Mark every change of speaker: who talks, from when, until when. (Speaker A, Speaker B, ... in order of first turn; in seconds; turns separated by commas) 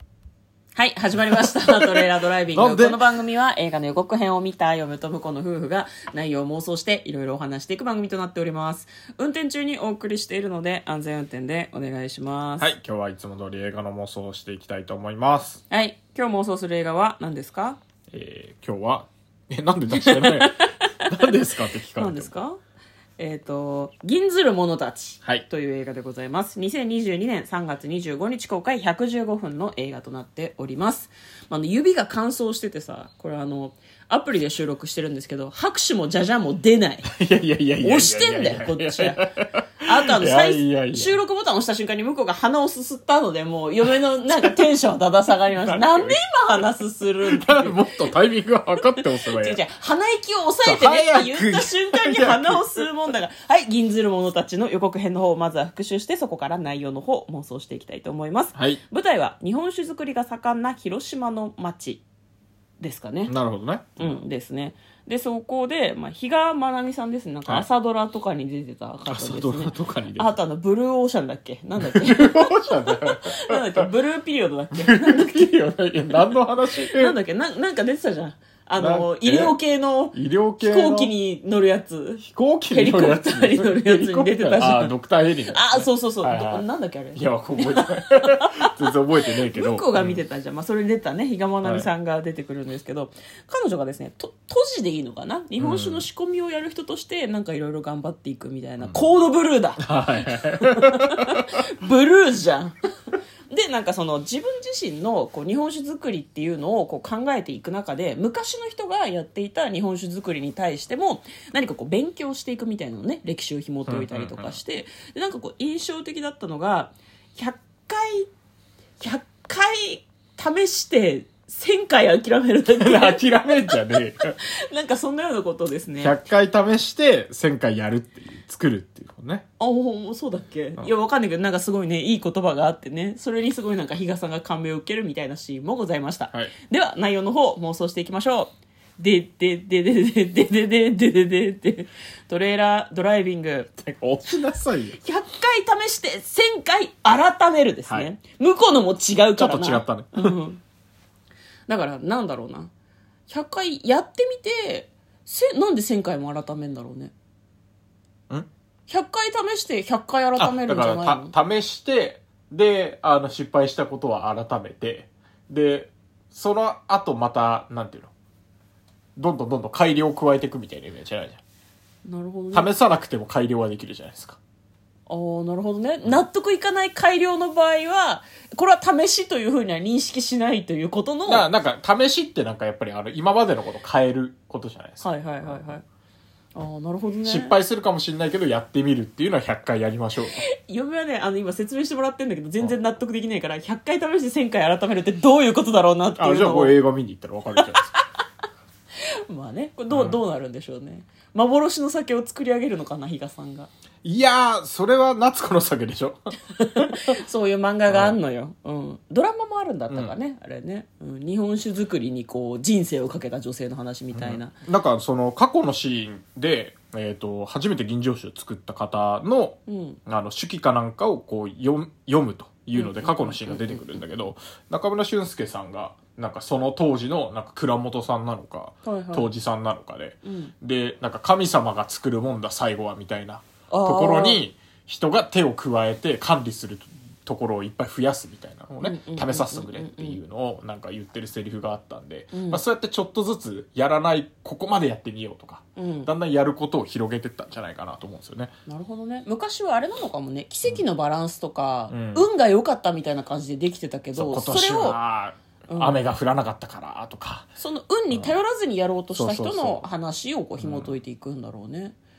Speaker A: 0.8-12.7, Speaker B: 2.5-3.0, Speaker B: 12.6-15.6, Speaker A: 15.7-17.8, Speaker B: 18.1-22.4, Speaker A: 19.9-21.3, Speaker A: 21.9-22.6, Speaker A: 23.2-37.1, Speaker B: 37.1-41.2, Speaker A: 37.8-39.3, Speaker A: 39.8-47.9, Speaker B: 45.5-46.2, Speaker B: 47.2-49.6, Speaker A: 48.9-62.0, Speaker B: 50.6-52.9, Speaker B: 58.5-58.8, Speaker A: 62.8-63.3, Speaker B: 63.3-64.2, Speaker A: 64.0-75.5, Speaker B: 69.0-70.3, Speaker B: 71.8-73.8, Speaker B: 74.8-77.1, Speaker A: 76.8-85.0, Speaker B: 78.8-79.5, Speaker B: 80.1-81.1, Speaker B: 82.2-90.2, Speaker A: 85.5-88.7, Speaker A: 89.4-102.8, Speaker B: 91.6-91.9, Speaker B: 95.6-96.0, Speaker B: 99.8-101.5, Speaker A: 103.5-118.3, Speaker B: 113.9-114.6, Speaker A: 119.0-126.2, Speaker B: 122.7-124.3, Speaker B: 126.0-129.4, Speaker A: 129.6-143.8, Speaker B: 143.8-145.0, Speaker A: 145.0-150.6, Speaker B: 149.3-150.4, Speaker A: 151.7-152.7, Speaker A: 153.3-157.1, Speaker A: 158.9-161.3, Speaker B: 160.4-168.1, Speaker B: 169.2-171.4, Speaker A: 172.0-172.7, Speaker B: 172.5-174.4, Speaker A: 175.1-181.5, Speaker B: 181.3-185.7, Speaker A: 185.0-185.8, Speaker A: 186.5-187.6, Speaker B: 187.2-190.4, Speaker A: 190.4-196.7, Speaker B: 196.2-197.8, Speaker A: 199.0-203.7, Speaker B: 199.9-200.2, Speaker B: 204.0-206.2, Speaker A: 206.6-214.5, Speaker B: 207.9-208.2, Speaker B: 209.9-210.1, Speaker B: 214.1-248.5, Speaker A: 219.7-220.0, Speaker A: 222.7-224.0, Speaker A: 228.8-229.3, Speaker A: 230.2-230.5, Speaker A: 233.7-234.4, Speaker A: 238.8-240.2, Speaker A: 242.3-242.6, Speaker A: 245.8-246.1, Speaker A: 248.7-255.0, Speaker B: 251.9-252.3, Speaker B: 254.1-257.5, Speaker A: 255.7-256.0, Speaker A: 257.6-261.9, Speaker B: 258.1-258.4, Speaker B: 259.1-259.9, Speaker B: 260.6-260.9